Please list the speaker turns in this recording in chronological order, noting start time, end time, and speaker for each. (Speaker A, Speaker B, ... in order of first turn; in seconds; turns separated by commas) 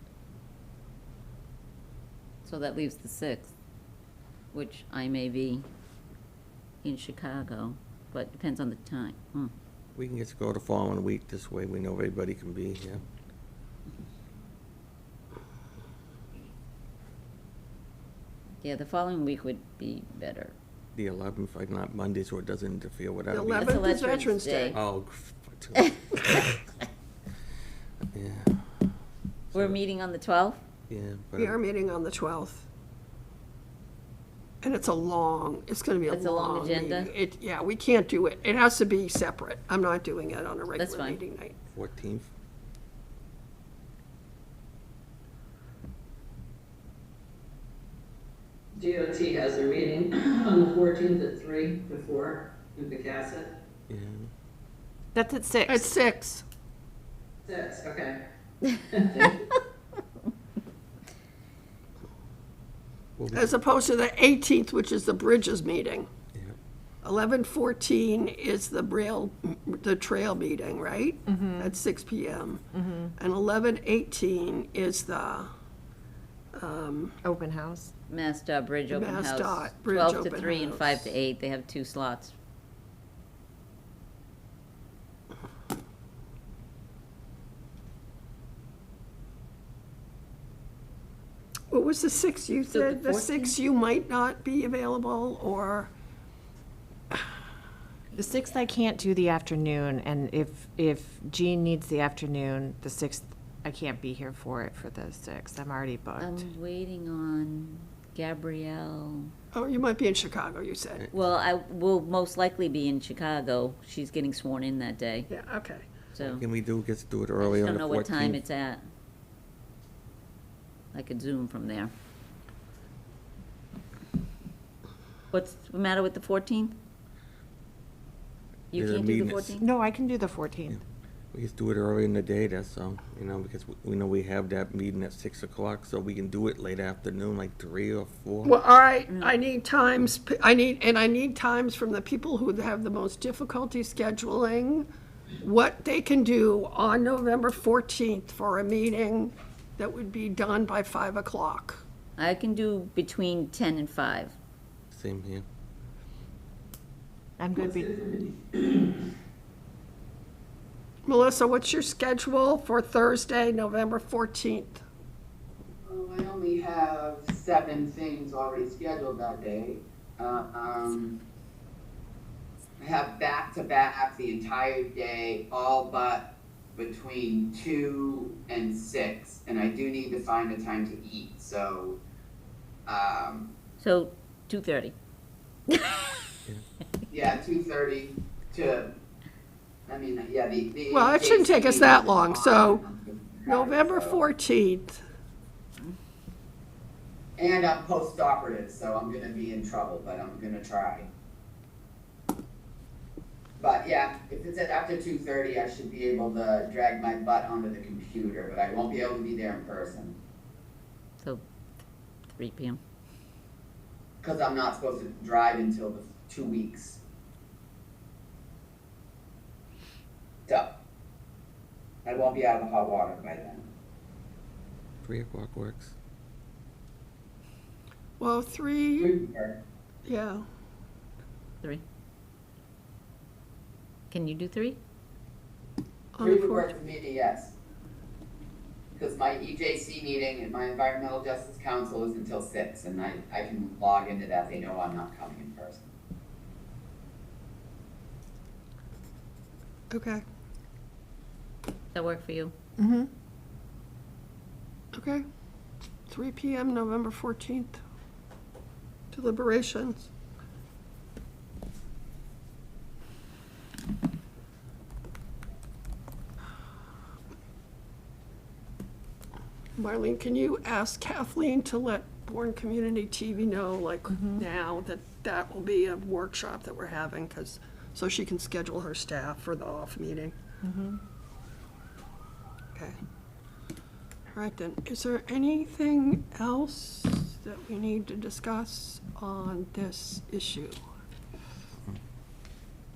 Speaker A: 2.5-3.5, Speaker A: 4.5-5.7, Speaker A: 6.8-9.5, Speaker B: 10.0-13.0, Speaker A: 18.6-20.6, Speaker B: 20.9-23.8, Speaker C: 23.3-24.8, Speaker A: 23.6-24.8, Speaker B: 24.7-26.6, Speaker B: 28.1-28.6, Speaker B: 29.5-29.8, Speaker A: 29.5-30.6, Speaker B: 30.9-31.6, Speaker C: 31.4-32.6, Speaker C: 34.6-41.5, Speaker A: 36.1-37.1, Speaker A: 40.8-41.2, Speaker B: 41.7-42.3, Speaker D: 48.8-53.5, Speaker B: 53.9-54.3, Speaker E: 55.1-55.9, Speaker C: 55.7-56.4, Speaker D: 57.5-58.2, Speaker D: 59.0-59.3, Speaker B: 63.2-63.5, Speaker C: 63.3-66.1, Speaker C: 67.0-72.6, Speaker E: 71.3-71.7, Speaker E: 72.8-73.1, Speaker C: 73.2-75.5, Speaker C: 76.5-77.1, Speaker E: 77.2-77.9, Speaker A: 78.1-82.3, Speaker C: 78.9-81.1, Speaker C: 91.7-95.9, Speaker A: 92.7-93.5, Speaker E: 98.1-106.5, Speaker A: 106.2-109.3, Speaker C: 109.5-111.0, Speaker A: 111.1-115.3, Speaker C: 115.3-115.9, Speaker A: 116.1-116.5, Speaker B: 116.2-118.4, Speaker A: 117.4-118.8, Speaker A: 120.9-121.9, Speaker A: 125.3-126.8, Speaker A: 128.7-129.6, Speaker B: 128.7-129.6, Speaker E: 129.6-130.8, Speaker B: 131.3-138.6, Speaker C: 138.4-144.9, Speaker A: 139.1-139.4, Speaker C: 145.4-151.8, Speaker A: 152.2-154.3, Speaker B: 154.9-155.4, Speaker E: 157.4-158.1, Speaker C: 161.1-164.8, Speaker F: 165.8-171.2, Speaker F: 172.8-182.0, Speaker F: 182.8-183.5, Speaker A: 183.8-184.9, Speaker F: 187.1-188.9, Speaker F: 189.9-194.2, Speaker C: 190.9-192.8, Speaker C: 193.4-195.0, Speaker F: 197.4-201.1, Speaker F: 203.6-210.2, Speaker A: 212.3-212.8, Speaker F: 214.2-217.0, Speaker F: 222.0-223.7, Speaker B: 225.0-225.9, Speaker C: 228.2-229.1, Speaker F: 229.0-229.6, Speaker C: 230.1-230.4, Speaker A: 234.1-234.8, Speaker C: 236.1-236.7, Speaker F: 236.2-237.5, Speaker F: 238.9-245.9, Speaker C: 249.9-250.2, Speaker A: 251.9-252.5, Speaker C: 254.9-255.2, Speaker C: 256.1-257.8, Speaker C: 259.1-260.1, Speaker C: 269.8-280.3, Speaker E: 274.1-274.4, Speaker E: 280.6-281.0, Speaker C: 284.3-290.8